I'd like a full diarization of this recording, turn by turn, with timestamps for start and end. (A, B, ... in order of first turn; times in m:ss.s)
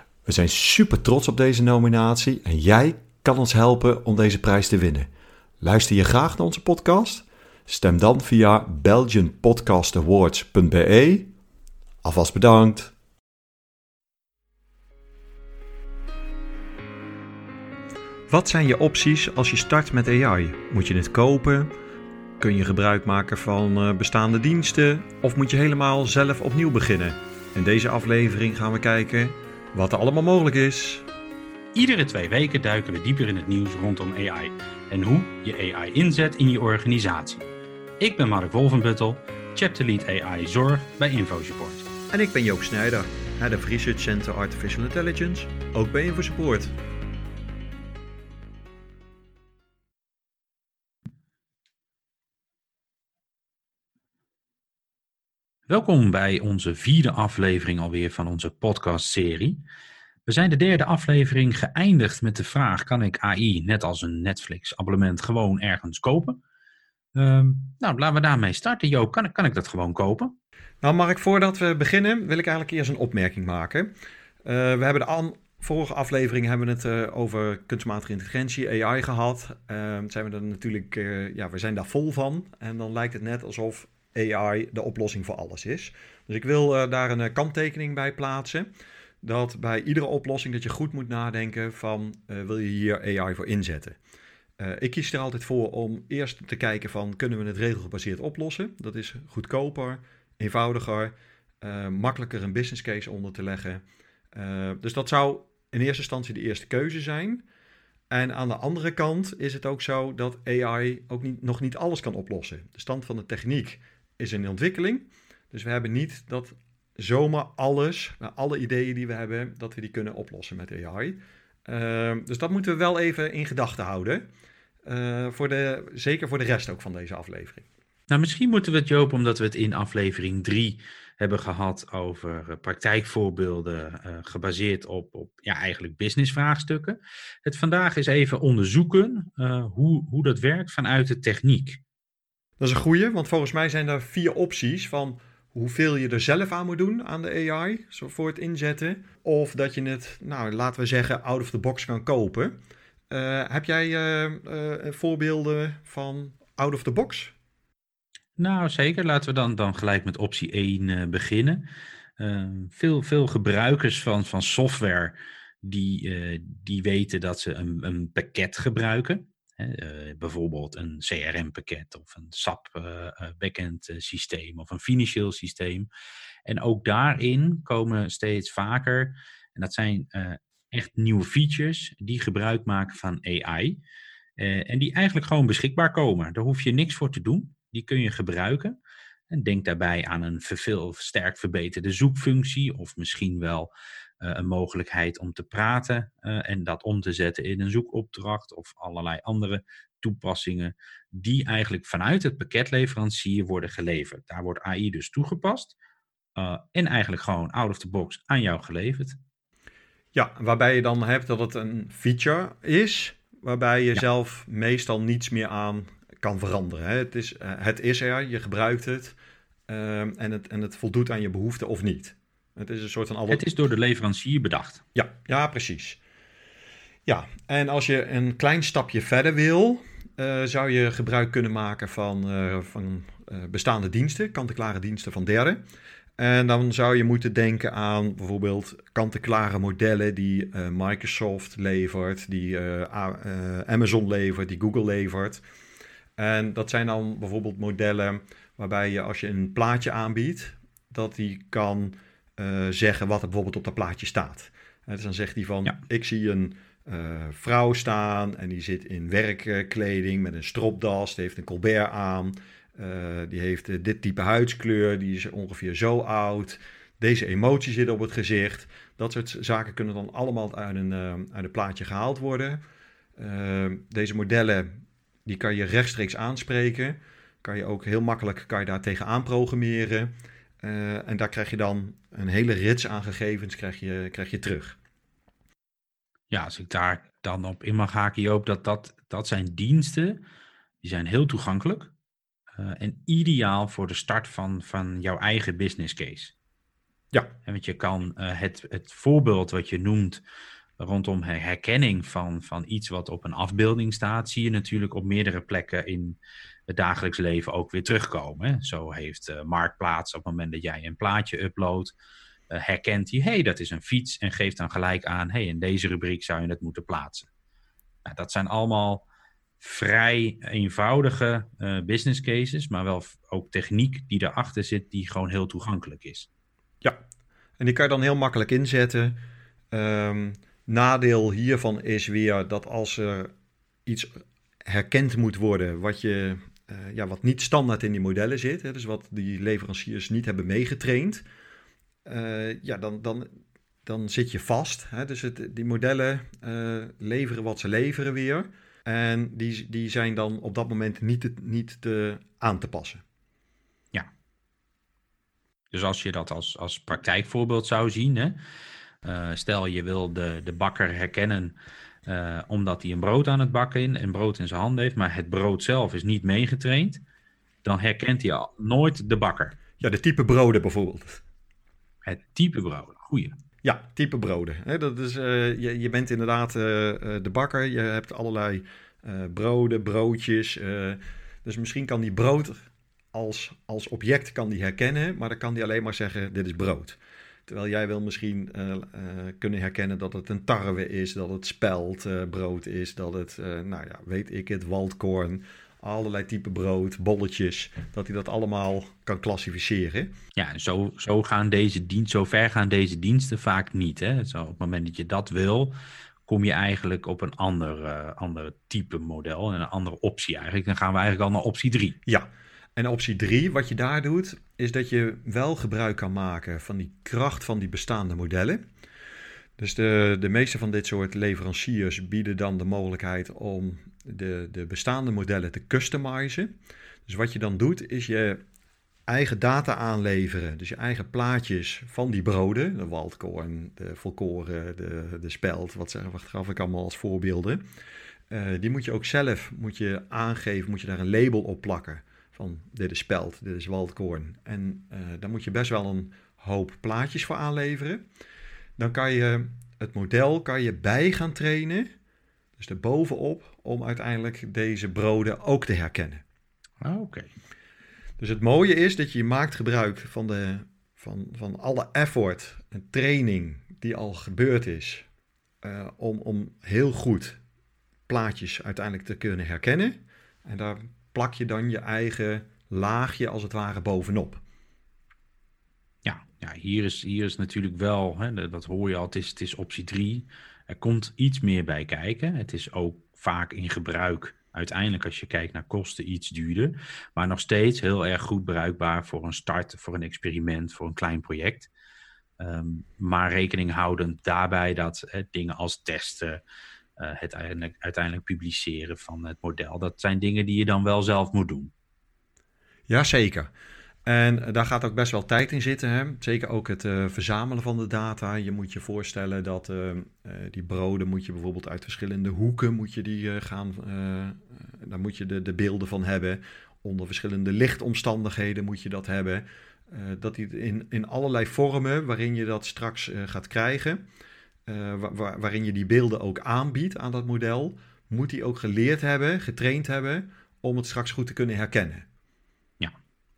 0:00.2-0:05.1 A
0:05.6-0:11.3 A
0:12.0-0:12.9 A
0:18.3-0:21.7 A
0:22.4-0:31.0 A
0:31.7-0:41.8 B
0:42.1-0:46.7 A
0:55.7-0:59.6 B
1:00.3-1:06.4 B
1:07.1-1:10.3 B
1:10.8-1:13.9 A
1:14.4-1:28.7 A
1:29.2-1:34.0 A
1:34.6-1:43.8 A
1:44.3-1:47.4 A
1:48.1-2:04.3 A
2:04.8-2:07.7 A
2:08.1-2:21.8 B
2:22.6-2:32.6 A
2:33.1-2:37.3 A
2:38.4-2:41.7 B
2:42.2-2:55.9 B
2:56.4-3:03.8 B
3:04.4-3:08.8 B
3:09.3-3:25.7 B
3:26.4-3:29.2 B
3:30.1-3:39.1 A
3:39.7-3:43.5 A
3:43.3-3:44.8 B
3:44.9-3:46.0 A
3:47.0-3:55.6 A
3:56.2-4:05.4 A
4:06.2-4:32.6 A
4:33.2-4:34.7 A
4:35.2-4:40.1 A
4:40.6-4:44.8 A
4:46.3-4:50.2 B
4:50.8-4:51.9 B
4:52.5-4:56.3 B
4:57.4-5:00.2 B
5:00.8-5:11.9 B
5:12.5-5:17.3 B
5:18.0-5:19.0 B
5:19.6-5:26.3 B
5:27.6-5:29.2 A
5:29.7-5:33.3 A
5:33.8-5:34.1 A
5:34.6-5:41.2 A
5:42.0-5:43.3 A
5:43.8-5:53.0 A
5:55.7-5:58.4 B
5:59.0-6:07.0 B
6:07.6-6:09.6 B
6:09.8-6:11.2 A
6:12.0-6:13.4 B
6:13.6-6:40.1 A
6:40.4-6:45.7 B
6:46.3-6:52.0 B
6:52.0-6:58.6 A
6:59.6-7:06.5 A
7:07.1-7:08.4 A
7:09.1-7:17.6 A
7:18.3-7:28.0 A
7:28.8-7:31.9 A
7:32.6-7:36.2 A
7:36.8-7:37.3 B
7:38.2-7:45.0 A
7:45.6-7:47.4 A
7:48.1-7:54.4 A
7:56.0-8:11.7 B
8:12.4-8:16.4 B
8:17.0-8:21.7 B
8:22.9-8:23.5 A
8:24.0-8:44.0 A
8:44.7-8:52.0 A